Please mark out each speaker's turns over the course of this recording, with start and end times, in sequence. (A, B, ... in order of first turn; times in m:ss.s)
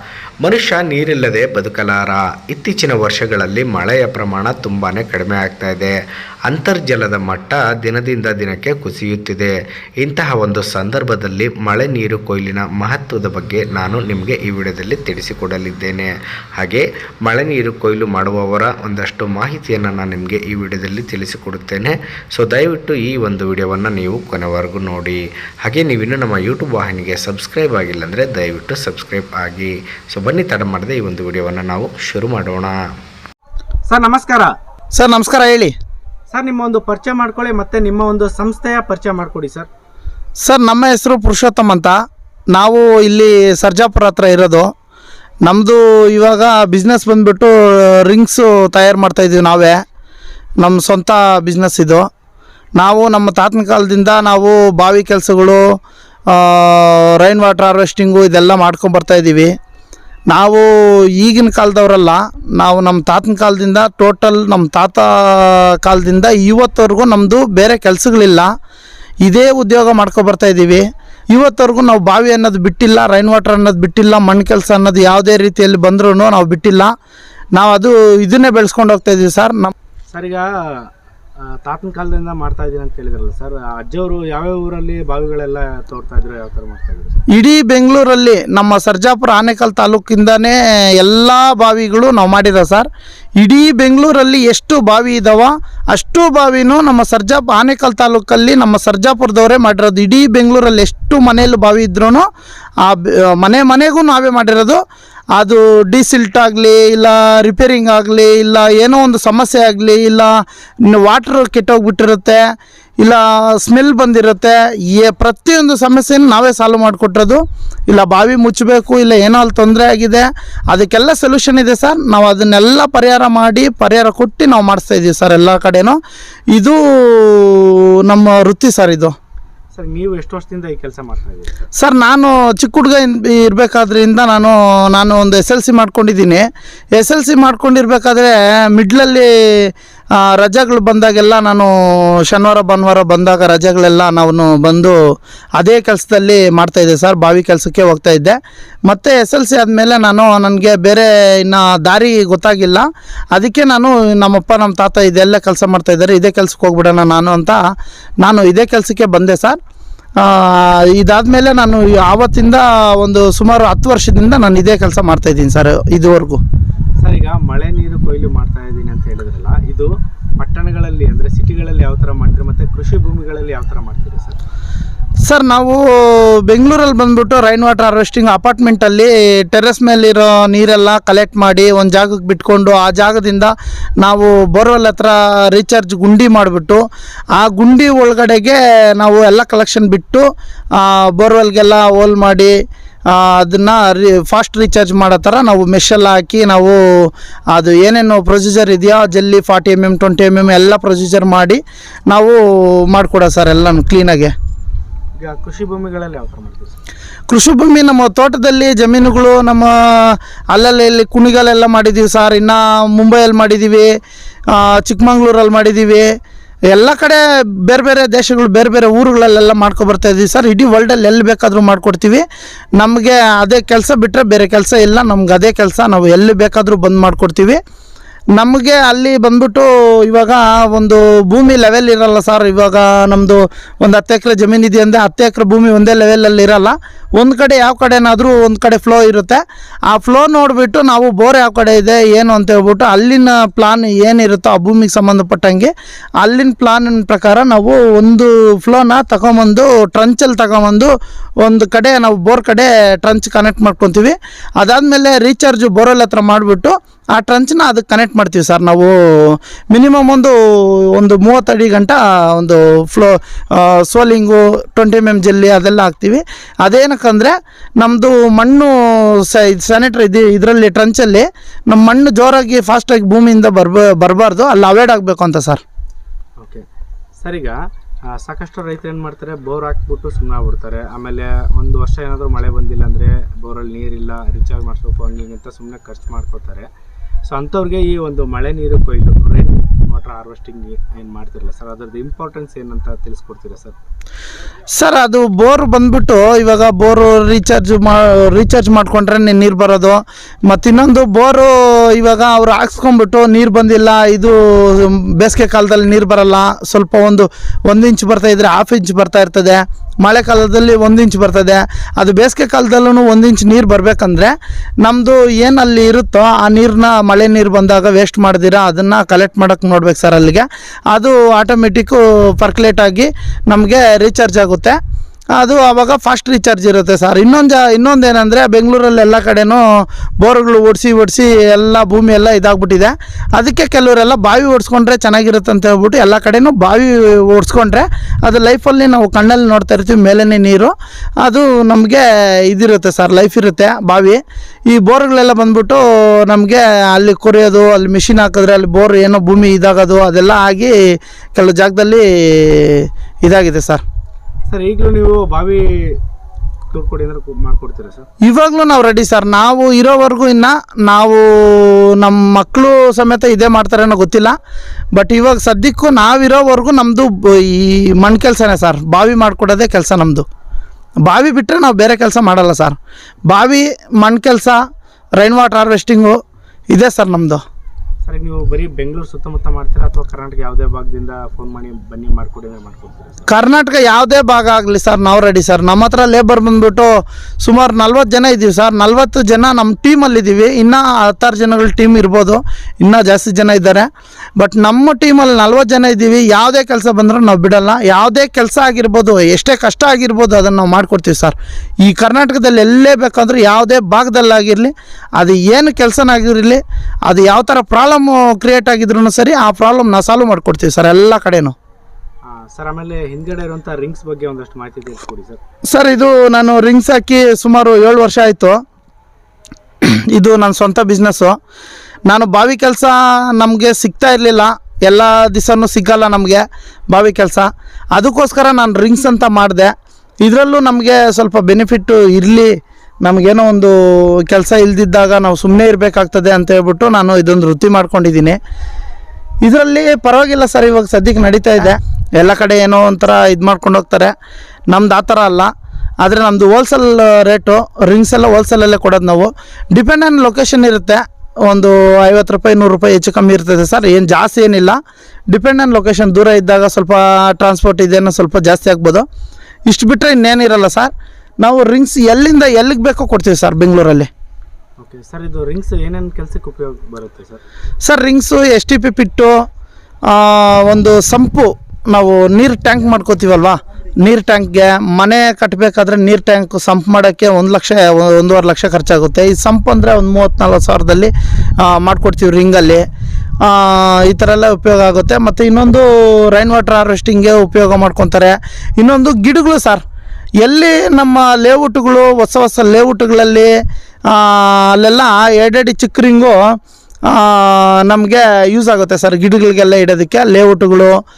0:00.4-0:05.9 A
0:06.5-0:32.8 A
0:33.8-0:34.5 B
0:34.9-0:35.7 C
0:36.3-0:39.7 B
0:40.4-0:42.0 C
0:42.5-0:44.7 C
0:45.4-0:47.5 C
0:48.1-0:49.8 C
0:50.6-0:52.0 C
0:52.8-0:55.6 C
0:56.3-0:59.5 C
1:00.3-1:08.5 C
1:09.2-1:16.9 C
1:17.5-1:19.7 C
1:20.1-1:20.9 B
1:21.6-1:27.2 B
1:27.3-1:32.9 C
1:33.4-1:42.2 C
1:42.8-1:44.8 C
1:45.4-1:50.3 C
1:50.9-1:52.4 C
1:53.0-2:06.0 C
2:06.5-2:09.1 C
2:09.7-2:11.6 B
2:11.8-2:21.7 C
2:22.3-2:25.0 C
2:25.6-2:37.6 C
2:38.2-2:39.6 C
2:40.2-2:46.4 C
2:47.0-2:54.4 B
2:55.2-2:55.8 C
2:56.4-3:06.8 C
3:07.4-3:10.2 C
3:10.8-3:12.5 C
3:13.1-3:16.8 C
3:17.5-3:22.4 C
3:22.9-3:24.3 C
3:25.2-3:26.8 B
3:27.3-3:33.9 C
3:34.5-3:36.1 C
3:36.7-3:42.2 C
3:42.8-3:47.6 C
3:48.4-4:10.9 C
4:11.4-4:18.9 C
4:19.7-4:20.4 C
4:21.0-4:35.6 C
4:36.4-4:36.6 B
4:37.2-4:37.6 B
4:38.1-4:46.7 B
4:47.3-4:53.8 B
4:54.7-5:24.8 C
5:25.4-5:29.6 C
5:30.2-5:50.7 C
5:51.4-5:53.8 C
5:54.5-5:56.0 B
5:56.7-5:58.1 B
5:58.2-6:04.3 C
6:05.0-6:10.2 C
6:11.0-6:12.8 C
6:13.3-6:14.6 C
6:15.2-6:16.2 C
6:16.7-6:17.4 C
6:18.0-6:23.3 B
6:23.3-6:26.9 C
6:27.4-6:51.6 C
6:52.2-6:55.4 B
6:55.7-6:58.5 C
7:00.1-7:01.3 C
7:02.1-7:09.7 C
7:10.2-7:12.5 C
7:13.0-7:13.7 C
7:14.2-7:18.4 C
7:19.4-7:24.1 C
7:24.7-7:25.5 C
7:26.0-7:34.8 C
7:35.3-7:39.0 C
7:39.7-7:44.1 C
7:44.8-7:47.4 B
7:47.8-7:49.3 C
7:50.1-8:02.8 C
8:03.4-8:09.8 C
8:10.4-8:13.5 C
8:14.1-8:16.4 C
8:17.1-8:21.0 C